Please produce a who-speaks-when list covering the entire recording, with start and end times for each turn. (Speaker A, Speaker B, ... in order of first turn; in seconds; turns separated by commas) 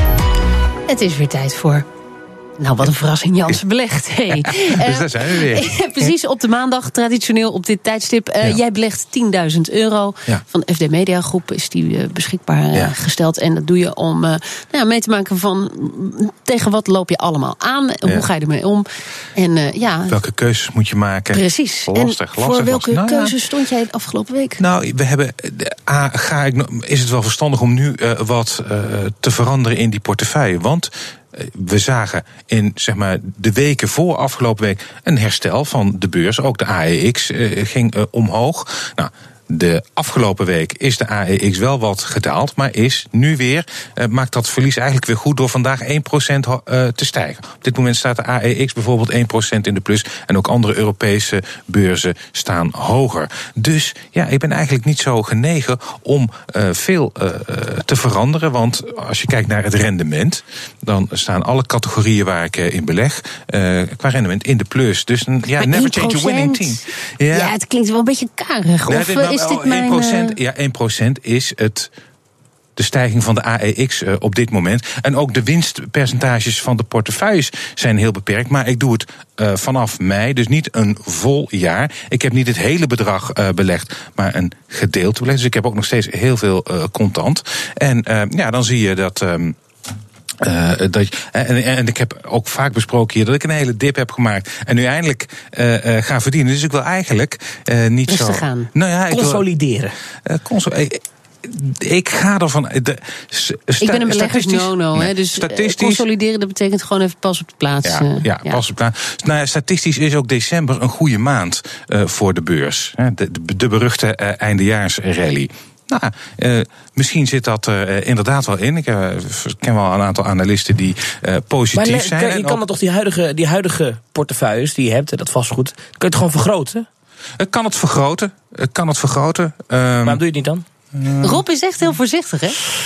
Speaker A: 0.9-1.8, Speaker A: 2.6-20.2, Speaker B: 4.4-5.8, Speaker B: 20.1-23.3, Speaker A: 21.3-24.6, Speaker B: 24.6-67.5, Speaker A: 65.5-70.4, Speaker B: 68.9-71.9, Speaker B: 72.8-89.5, Speaker B: 90.4-99.4, Speaker A: 98.1-98.7, Speaker C: 99.1-99.9, Speaker B: 100.2-106.0, Speaker A: 103.8-108.6, Speaker B: 107.8-122.6, Speaker C: 121.7-126.8, Speaker B: 127.4-130.2, Speaker C: 130.0-130.6, Speaker B: 130.9-131.4, Speaker A: 131.2-132.6